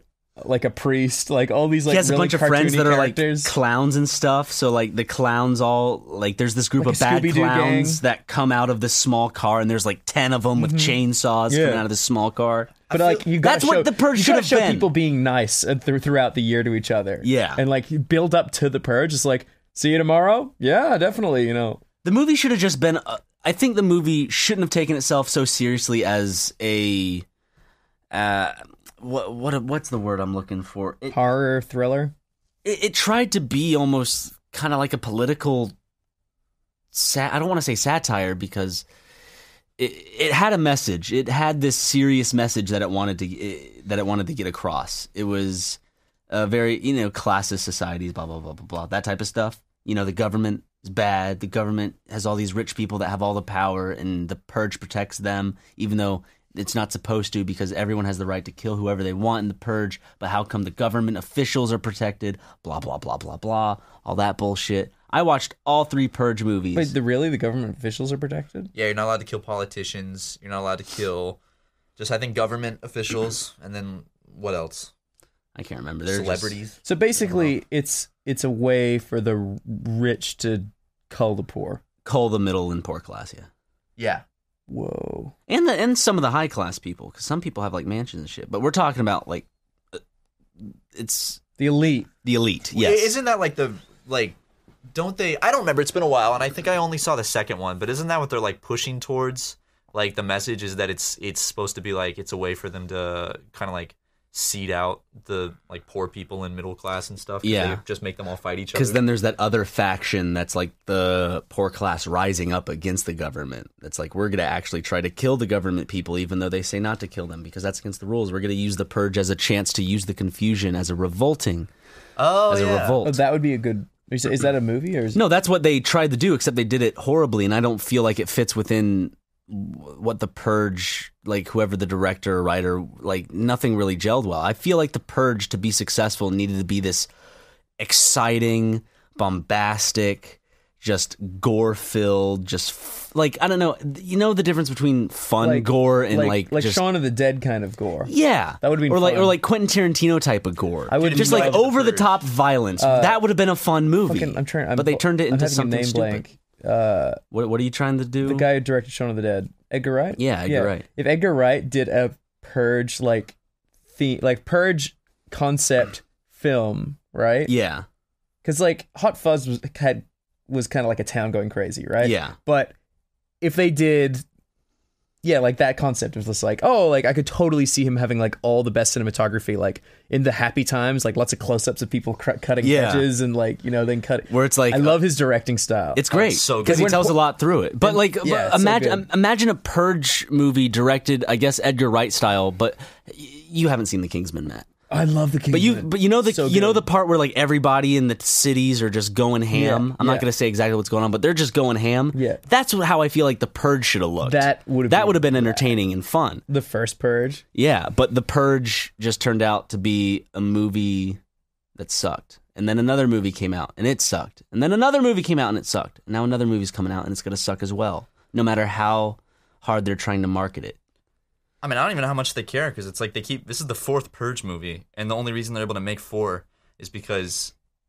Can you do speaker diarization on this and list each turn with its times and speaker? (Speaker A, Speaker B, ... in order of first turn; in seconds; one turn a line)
Speaker A: 0.4-3.6
Speaker B: 1.9-12.8
Speaker A: 6.8-8.0
Speaker A: 10.6-11.8
Speaker C: 12.9-13.3
Speaker A: 12.9-21.8
Speaker B: 13.4-14.9
Speaker B: 17.2-17.6
Speaker B: 22.0-27.2
Speaker B: 28.1-31.2
Speaker A: 31.1-32.1
Speaker B: 32.6-35.7
Speaker B: 36.9-38.9
Speaker B: 39.8-45.8
Speaker B: 46.3-66.9
Speaker A: 66.7-68.7
Speaker C: 68.7-71.4
Speaker C: 72.0-74.9
Speaker B: 75.5-76.6
Speaker C: 76.1-76.8
Speaker A: 76.8-81.8
Speaker B: 82.0-83.5
Speaker C: 84.0-84.2
Speaker A: 84.7-85.3
Speaker B: 85.5-90.0
Speaker B: 90.6-91.4
Speaker A: 91.6-92.1
Speaker B: 92.2-93.1
Speaker C: 92.8-94.4
Speaker C: 94.9-109.0
Speaker B: 107.4-107.8
Speaker B: 108.7-121.7
Speaker C: 122.2-123.0
Speaker B: 122.5-123.2
Speaker A: 123.0-125.2
Speaker B: 125.1-137.1
Speaker B: 137.8-146.8
Speaker A: 145.4-149.4
Speaker B: 148.1-156.3
Speaker A: 150.9-151.7
Speaker C: 151.0-152.2
Speaker A: 152.8-153.2
Speaker A: 154.1-157.2
Speaker B: 157.3-158.5
Speaker A: 158.2-163.4
Speaker B: 160.2-160.9
Speaker A: 163.9-167.5
Speaker B: 167.5-167.9
Speaker A: 168.4-172.7
Speaker B: 172.0-172.4
Speaker A: 173.4-174.2
Speaker A: 175.2-186.1
Speaker B: 182.6-183.1
Speaker B: 184.3-185.0
Speaker B: 185.9-194.7
Speaker C: 186.1-187.1
Speaker A: 186.6-187.2
Speaker A: 187.8-189.1
Speaker A: 194.9-196.8
Speaker B: 195.5-206.4
Speaker A: 199.5-200.3
Speaker A: 202.1-202.4
Speaker A: 204.2-205.8
Speaker A: 206.5-207.4
Speaker B: 207.6-211.2
Speaker B: 211.8-220.8
Speaker C: 221.6-227.5